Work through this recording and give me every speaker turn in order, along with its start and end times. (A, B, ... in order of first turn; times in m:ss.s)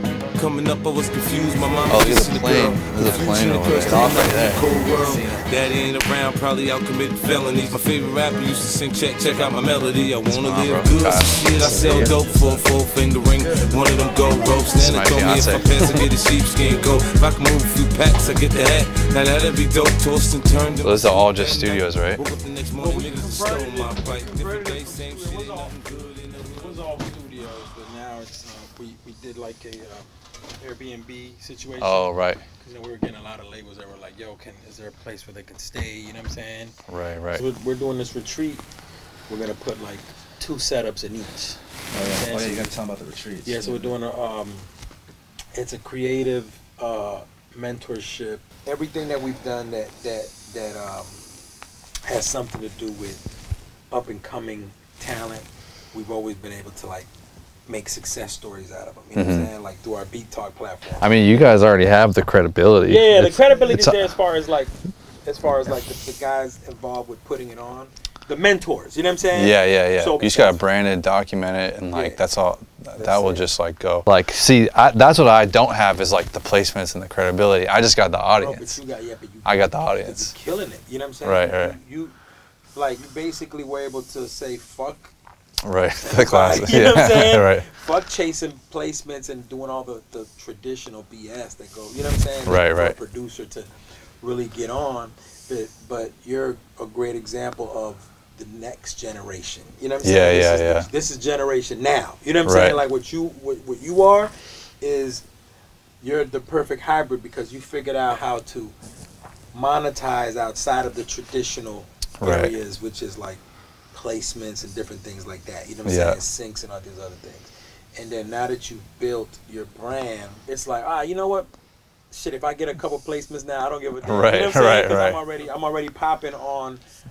0:00.4-0:26.8 A
0:01.9-0:04.7 B
0:04.9-0:05.4 C
0:10.2-0:12.2 B
0:14.8-0:16.0 B
0:20.8-0:22.2 B
0:22.8-0:25.8 D
0:26.5-0:30.1 D
0:30.6-0:36.8 D
0:31.8-0:32.4 B
0:36.9-0:37.4 B
0:37.3-0:38.6 D
0:39.3-0:41.6 D
0:41.9-0:43.9 C
0:42.1-0:42.8 D
0:43.4-0:44.7 D
0:45.5-0:51.2 D
0:52.0-0:53.2 D
0:53.9-0:57.1 D
0:57.7-1:01.2 D
0:59.1-0:59.5 B
1:01.0-1:04.1 B
1:02.8-1:04.7 D
1:05.2-1:10.6 D
1:09.3-1:18.8 B
1:11.9-1:12.2 D
1:13.0-1:13.5 D
1:18.4-1:22.2 D
1:19.4-1:20.3 B
1:21.2-1:21.8 B
1:22.7-1:25.1 D
1:25.6-1:27.7 B
1:26.0-1:45.2 D
1:32.5-1:33.0 B
1:40.0-1:40.9 B
1:42.4-1:42.8 B
1:46.0-1:48.7 D
1:49.5-2:01.5 D
1:52.2-1:52.6 B
1:55.8-1:56.2 B
2:02.1-2:06.8 D
2:04.0-2:05.2 B